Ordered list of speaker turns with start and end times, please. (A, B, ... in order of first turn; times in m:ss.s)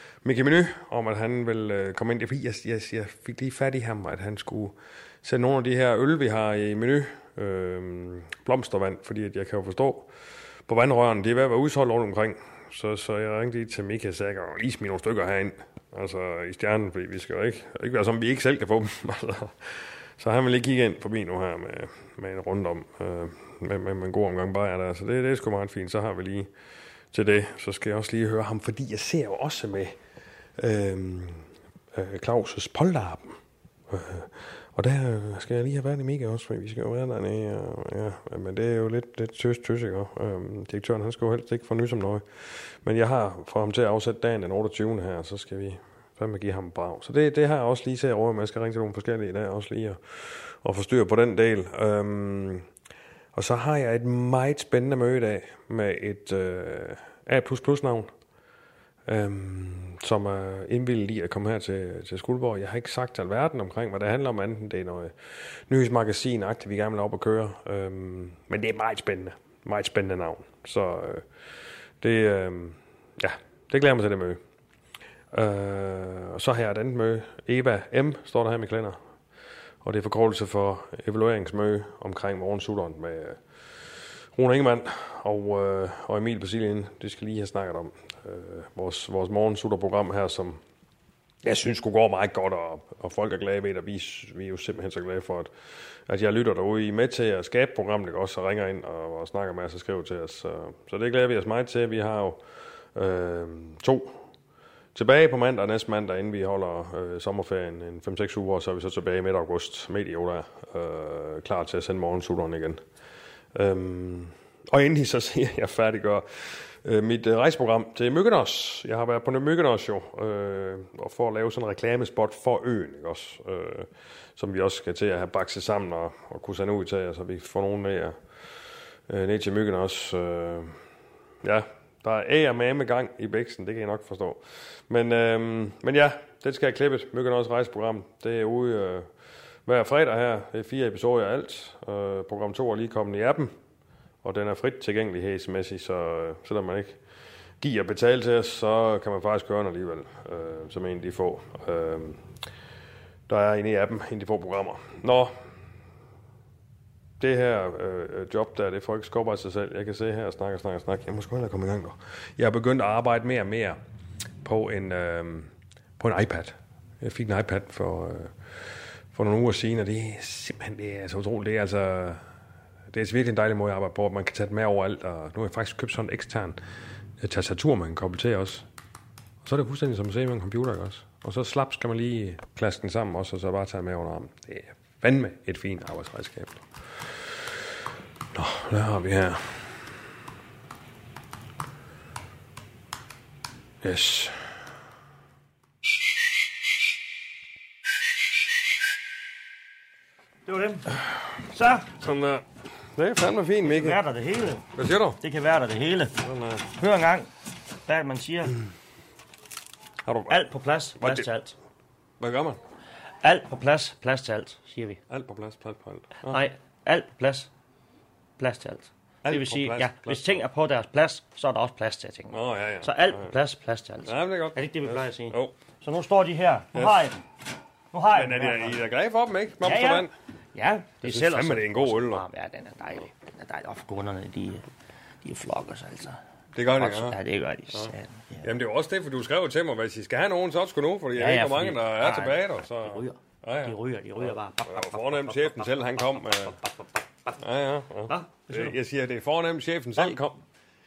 0:00.2-0:10.1 A
0:10.7-0:26.5 A
0:27.1-0:30.0 A
0:30.6-0:33.4 A
0:33.9-0:52.7 A
0:53.3-0:58.1 A
0:59.1-1:05.1 A
1:05.7-1:11.2 A
1:12.0-1:14.4 A
1:15.3-1:19.0 A
1:19.8-1:23.4 A
1:24.4-1:30.6 A
1:31.4-1:35.5 A
1:36.1-1:42.4 A
1:43.0-1:44.2 A
1:45.0-1:52.8 A
1:53.6-2:08.2 A
2:09.1-2:10.8 A
2:11.4-2:19.1 A
2:19.7-2:23.5 A
2:24.2-2:27.0 A
2:27.6-2:32.2 A
2:33.3-2:35.3 A
2:37.2-2:43.8 A
2:44.4-2:48.3 A
2:49.1-2:52.2 A
2:52.9-2:56.6 A
2:57.2-2:58.6 A
2:59.4-3:07.4 A
3:08.3-3:09.6 A
3:13.8-3:14.3 A
3:20.5-3:20.9 B
3:21.5-3:21.9 B
3:21.9-3:22.4 A
3:23.0-3:24.0 A
3:23.6-3:24.6 B
3:24.8-3:25.2 A
3:25.2-3:26.2 B
3:26.2-3:26.6 A
3:26.7-3:27.3 B
3:27.9-3:28.6 B
3:30.0-3:30.5 A
3:30.3-3:31.6 B
3:31.0-3:31.3 A
3:32.2-3:32.6 A
3:33.2-3:35.0 B
3:35.1-3:36.4 A
3:36.3-3:37.5 B
3:38.4-3:47.2 B
3:39.2-3:40.4 A
3:42.3-3:43.3 A
3:44.1-3:45.6 A
3:46.7-3:47.1 A
3:47.9-3:48.8 B
3:48.1-3:50.1 A
3:49.6-3:54.7 B
3:51.0-3:52.2 A
3:55.2-3:56.2 B
3:56.6-3:57.2 A
3:56.8-3:58.5 B
3:58.4-4:06.6 A
4:01.2-4:06.8 B
4:07.4-4:10.4 A
4:08.1-4:08.7 B